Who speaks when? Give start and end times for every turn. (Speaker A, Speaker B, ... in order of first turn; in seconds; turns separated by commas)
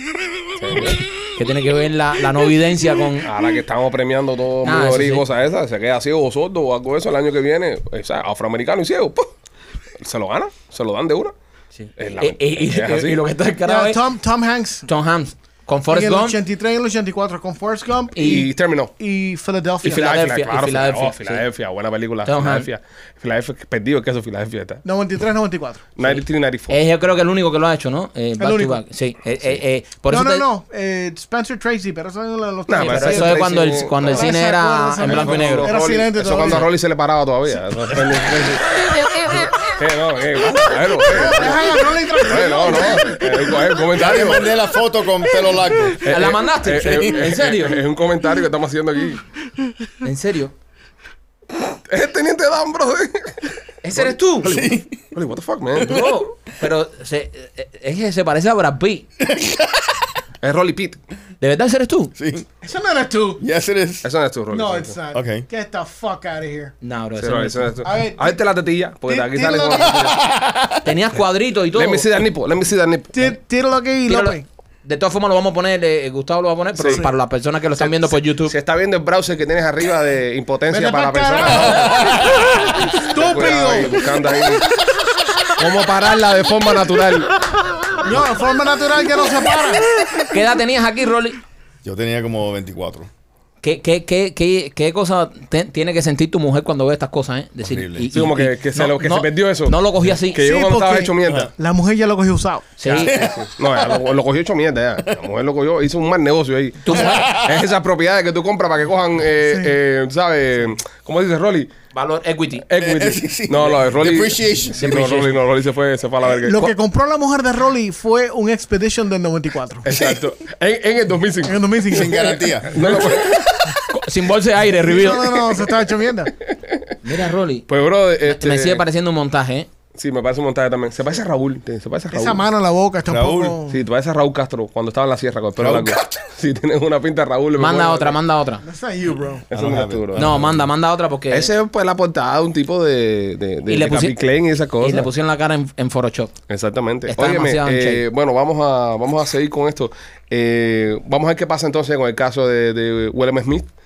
Speaker A: 0.6-1.0, Speaker B: 0.7-3.3, Speaker A: 3.2-9.3, Speaker B: 4.6-5.2, Speaker A: 10.0-11.3, Speaker B: 11.8-14.0, Speaker A: 12.0-13.2, Speaker C: 13.7-14.9, Speaker B: 14.8-16.4, Speaker C: 15.9-20.1, Speaker B: 18.1-18.4, Speaker A: 18.2-18.9, Speaker A: 19.8-24.8, Speaker B: 19.8-21.4, Speaker B: 22.2-22.7, Speaker C: 24.8-25.9, Speaker A: 25.9-26.8, Speaker B: 26.0-30.5, Speaker C: 28.4-28.8, Speaker C: 30.1-33.4, Speaker A: 32.7-34.3, Speaker B: 32.8-35.7, Speaker C: 34.0-36.7, Speaker A: 35.0-44.5, Speaker B: 38.9-39.7, Speaker C: 41.1-43.5, Speaker D: 43.9-46.0, Speaker A: 45.9-49.2, Speaker B: 46.1-47.8, Speaker B: 50.0-50.5, Speaker A: 51.9-53.4, Speaker B: 53.8-54.7, Speaker A: 53.9-56.1, Speaker D: 54.4-55.0, Speaker B: 55.8-59.1, Speaker D: 55.8-56.0, Speaker D: 59.2-60.0, Speaker A: 60.4-61.0, Speaker B: 61.4-62.1, Speaker D: 62.1-62.5, Speaker C: 62.6-63.4, Speaker D: 63.4-64.0, Speaker A: 64.0-65.0, Speaker C: 64.5-66.7, Speaker D: 65.1-65.4, Speaker B: 66.8-67.7, Speaker A: 67.2-70.2, Speaker C: 67.8-68.4, Speaker C: 69.1-70.1, Speaker D: 69.7-70.8, Speaker B: 70.8-72.2, Speaker A: 71.7-73.3, Speaker C: 73.1-74.5, Speaker B: 74.1-78.5, Speaker A: 76.8-77.0, Speaker A: 77.8-84.7, Speaker C: 80.7-84.1, Speaker D: 81.8-82.3, Speaker A: 85.6-87.3, Speaker C: 88.0-89.9, Speaker B: 90.2-91.4, Speaker D: 91.8-93.1, Speaker B: 93.6-100.4, Speaker D: 97.6-98.1, Speaker A: 98.1-101.5, Speaker C: 100.4-102.7, Speaker B: 102.8-103.2, Speaker D: 102.9-104.0, Speaker A: 102.9-111.7, Speaker B: 106.8-107.3, Speaker D: 106.9-107.6, Speaker B: 111.9-112.7, Speaker A: 112.7-116.7, Speaker D: 112.8-115.0, Speaker B: 114.8-115.3, Speaker C: 116.4-119.9, Speaker A: 119.8-123.8, Speaker D: 119.9-120.2, Speaker C: 121.4-122.5, Speaker D: 121.9-122.8, Speaker B: 123.9-125.5, Speaker C: 124.8-126.3, Speaker A: 126.5-126.9, Speaker B: 127.0-127.7, Speaker A: 127.7-128.8, Speaker B: 128.2-129.7, Speaker A: 129.9-132.4, Speaker C: 132.1-133.8, Speaker D: 133.0-133.6, Speaker A: 133.7-138.2, Speaker D: 135.6-136.2, Speaker B: 137.6-138.6, Speaker C: 138.6-139.4, Speaker A: 139.5-140.5, Speaker D: 139.5-140.7, Speaker B: 140.2-141.5, Speaker A: 141.3-145.1, Speaker B: 143.7-144.2, Speaker B: 144.8-146.3, Speaker A: 146.5-153.7, Speaker B: 147.1-148.0